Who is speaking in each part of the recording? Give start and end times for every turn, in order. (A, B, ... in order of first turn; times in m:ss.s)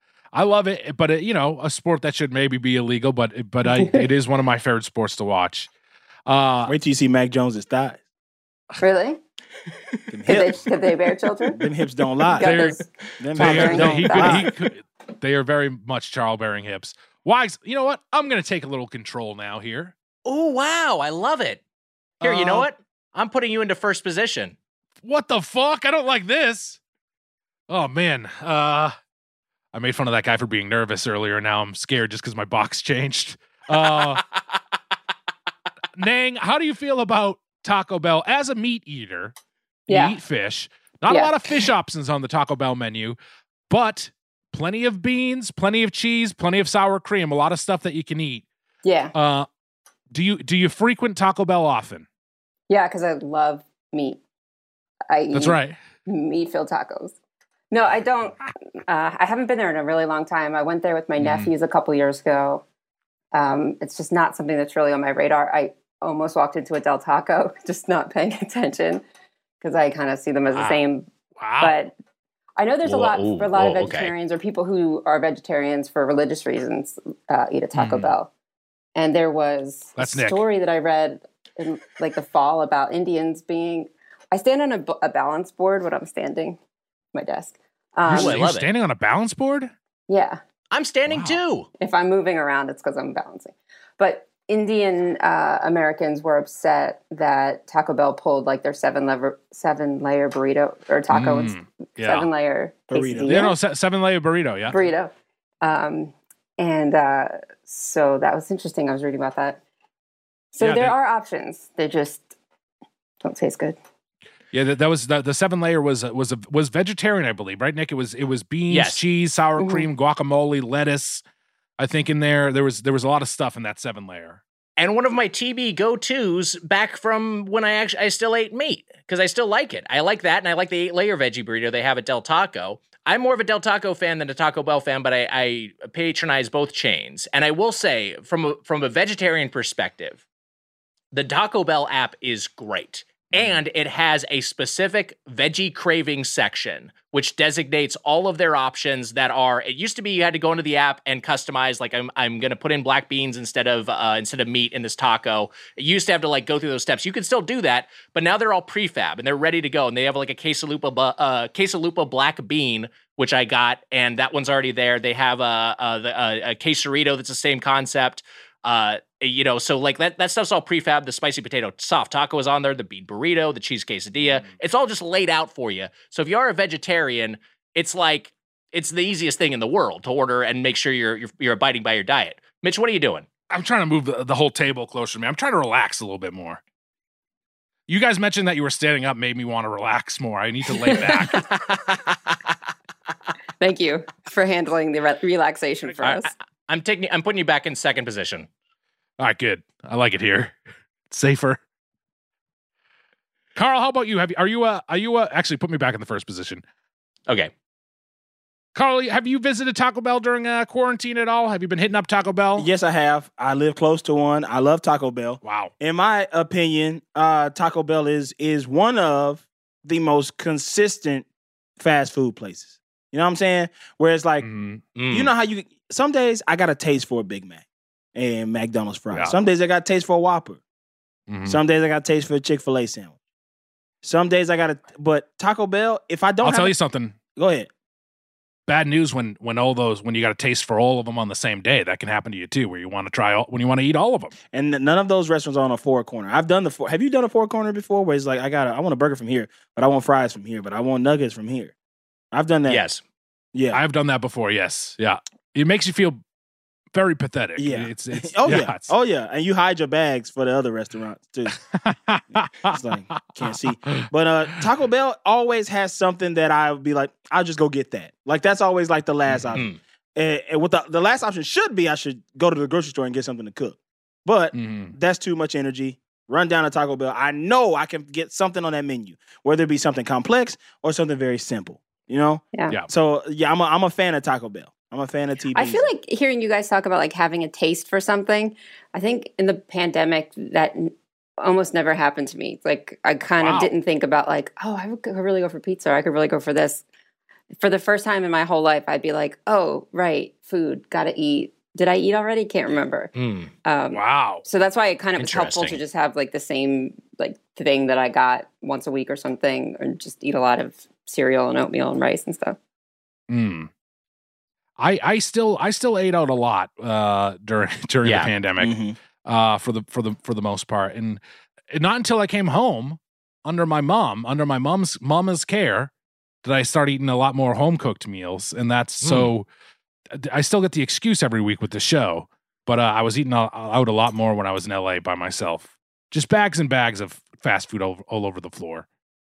0:00.3-0:05.7 A
0:03.7-0:04.0 B
0:06.3-0:06.7 A
0:06.7-0:08.0 C
0:08.8-0:09.2 B
0:10.1-0:10.7 C
0:10.3-0:11.6 B
0:11.5-0:12.6 C
0:12.3-0:14.5 B
0:12.4-0:12.8 A
0:13.2-0:14.5 C
0:13.4-0:19.9 A
0:20.2-0:21.6 D
0:22.2-0:22.7 A
0:22.2-0:24.6 D
0:25.0-0:26.8 A
0:27.7-0:29.0 A
0:29.7-0:34.2 A
0:33.9-0:34.2 D
0:36.0-0:39.3 A
0:39.9-0:40.2 B
0:39.9-0:43.2 A
0:41.1-0:41.5 B
0:43.7-0:48.4 A
0:48.8-0:49.1 B
0:49.1-0:49.5 A
0:50.1-0:52.1 A
0:52.7-0:54.2 B
0:55.1-0:57.2 B
0:55.3-0:55.8 A
0:57.7-1:02.6 B
1:01.2-1:01.5 A
1:03.3-1:09.0 B
1:09.6-1:11.1 B
1:10.6-1:10.8 A
1:11.4-1:11.8 A
1:11.6-1:11.9 B
1:12.6-1:18.3 B
1:12.9-1:14.1 D
1:17.8-1:18.1 A
1:19.0-1:26.6 B
1:20.0-1:20.4 A
1:27.1-1:28.4 B
1:28.1-1:29.7 A
1:28.1-1:28.7 D
1:30.1-1:30.4 B
1:30.7-1:31.7 D
1:31.1-1:31.4 A
1:31.8-1:43.6 B
1:41.1-1:42.3 A
1:42.9-1:43.4 C
1:43.2-1:44.9 A
1:44.7-1:49.6 B
1:50.5-1:52.3 B
1:50.6-1:50.9 A
1:53.2-1:53.8 B
1:54.5-2:01.2 A
1:58.7-1:59.0 D
1:59.6-1:59.9 B
2:01.8-2:04.4 A
2:04.8-2:20.2 D
2:21.1-3:03.3 D
2:23.3-2:23.6 A
3:03.5-3:06.6 A
3:07.9-3:11.6 A
3:13.6-3:16.3 B
3:16.0-3:18.5 D
3:19.2-3:20.6 A
3:21.1-3:21.6 A
3:23.6-3:26.6 A
3:28.8-3:32.7 A
3:32.6-3:41.3 C
3:35.4-3:35.7 A
3:41.8-3:44.5 C
3:44.4-3:44.8 A
3:45.0-3:45.3 D
3:45.1-3:47.6 C
3:48.2-3:50.6 C
3:51.3-3:51.6 A
3:51.4-3:53.1 C
3:54.0-3:56.8 C
3:56.4-3:57.2 A
3:57.4-3:57.7 C
3:58.7-4:04.4 A
4:04.5-4:11.7 C
4:12.3-4:12.8 C
4:12.7-4:13.0 D
4:13.5-4:13.8 C
4:13.7-4:16.2 A
4:16.9-4:18.9 A
4:17.6-4:21.6 C
4:21.5-4:22.8 A
4:22.6-4:45.9 C
4:29.3-4:29.6 A
4:29.5-4:29.8 D
4:34.5-4:35.0 A
4:45.5-4:56.8 B
4:53.4-4:53.7 A
4:57.6-5:03.1 B
5:03.2-5:03.5 D
5:03.6-5:12.6 B
5:03.9-5:04.4 A
5:05.2-5:05.8 D
5:13.3-5:13.7 A
5:14.8-5:25.9 A
5:18.0-5:18.3 D
5:18.6-5:19.0 C
5:26.4-5:29.5 A
5:29.0-5:29.3 D
5:30.2-5:38.9 A